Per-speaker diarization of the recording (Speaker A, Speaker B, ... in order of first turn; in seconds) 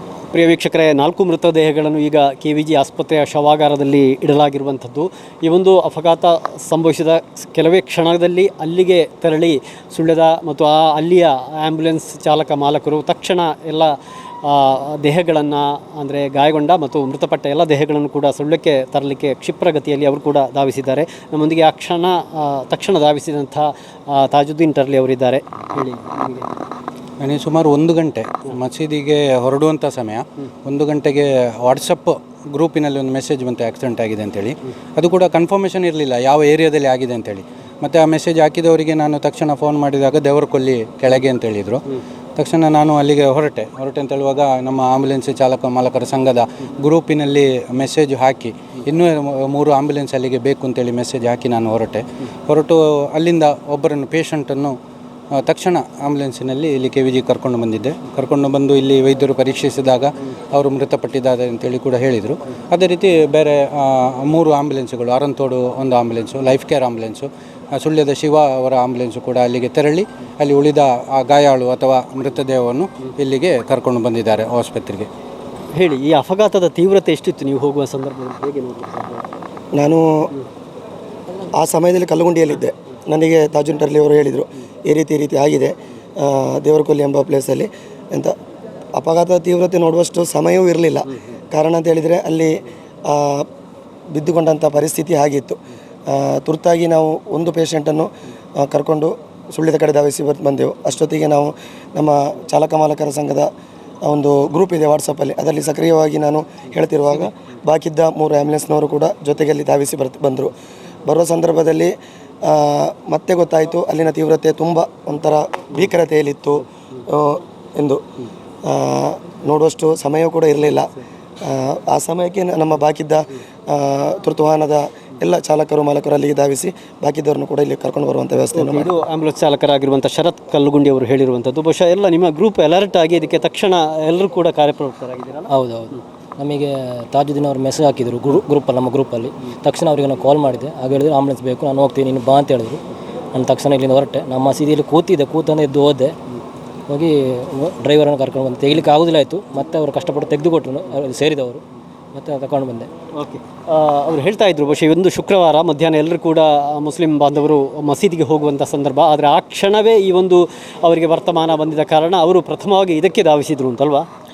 Speaker A: 0.3-26.5, 75.8-79.2, 128.6-135.5, 153.2-164.1
Speaker B: 27.2-41.8, 42.4-54.8, 55.4-75.1
Speaker C: 79.8-80.2, 81.5-88.3, 89.0-93.5, 94.1-103.5, 104.0-110.5, 111.0-111.9, 112.4-118.0, 118.7-120.9, 121.4-128.9
Speaker D: 135.5-142.8, 143.3-146.2, 146.9-151.6, 152.1-152.9